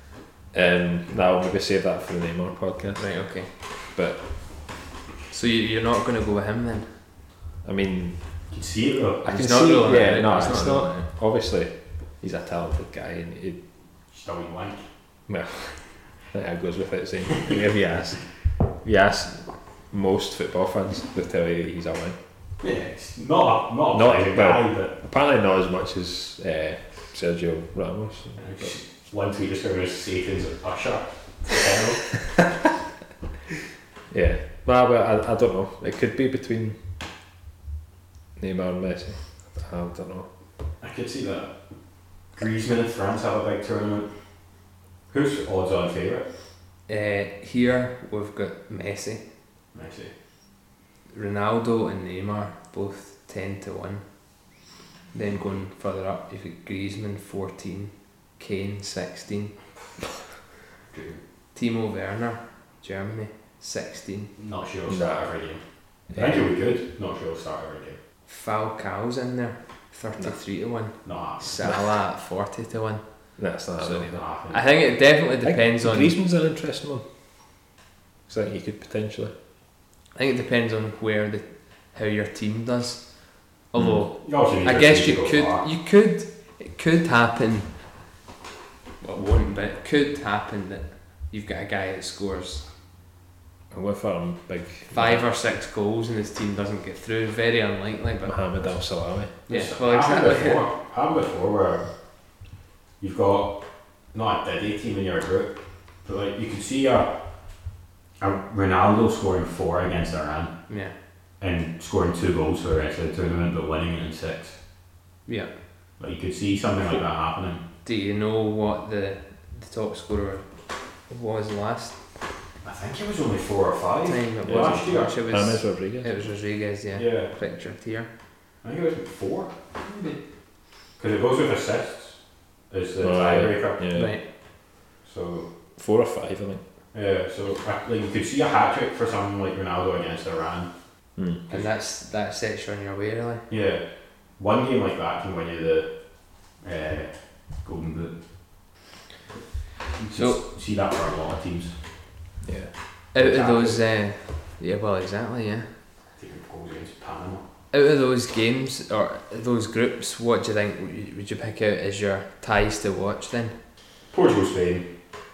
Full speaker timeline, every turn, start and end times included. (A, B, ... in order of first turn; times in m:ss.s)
0:00.5-0:04.7 A
0:03.0-0:03.5 B
0:05.3-0:07.0 B
0:07.6-0:08.4 A
0:08.5-0:09.2 C
0:09.2-0:11.1 B
0:09.2-0:13.6 A
0:14.1-0:14.9 C
0:15.3-0:22.2 A
0:22.6-0:24.9 C
0:23.9-0:28.8 A
0:28.4-0:32.5 C
0:34.1-0:36.9 A
0:38.4-0:40.3 A
0:40.8-0:44.5 C
0:45.1-0:46.3 C
0:46.9-0:49.3 B
0:49.7-0:50.1 C
0:51.1-0:54.4 B
0:55.1-0:59.6 B
1:00.9-1:01.2 C
1:01.5-1:04.3 B
1:04.4-1:08.0 C
1:04.8-1:05.5 A
1:06.1-1:06.5 A
1:08.3-1:16.2 B
1:11.0-1:11.7 C
1:13.4-1:14.2 A
1:13.8-1:14.6 C
1:15.4-1:17.0 A
1:18.2-1:19.3 A
1:20.1-1:28.0 B
1:23.7-1:24.0 A
1:24.2-1:25.7 C
1:29.0-1:32.7 B
1:33.7-1:35.3 A
1:34.9-1:38.4 B
1:38.2-1:39.4 A
1:39.5-1:40.7 B
1:39.5-1:42.4 C
1:43.0-1:54.6 C
1:50.7-1:51.0 B
1:55.2-1:55.6 B
1:56.0-1:57.6 C
1:57.8-2:02.0 B
2:02.6-2:05.2 C
2:04.0-2:08.1 B
2:04.4-2:06.2 A
2:06.9-2:07.3 C
2:08.6-2:10.1 C
2:11.0-2:13.8 C
2:13.0-2:14.2 A
2:13.9-2:14.2 B
2:15.0-2:15.5 C
2:15.7-2:16.6 A
2:16.9-2:20.7 C
2:21.2-2:21.4 A
2:21.5-2:23.5 B
2:23.5-2:28.7 C
2:29.9-2:32.0 C
2:30.2-2:30.4 B
2:32.4-2:32.7 A
2:33.1-2:35.8 B
2:33.1-2:33.8 C
2:36.1-2:37.4 C
2:37.7-2:43.6 B
2:44.1-2:44.9 C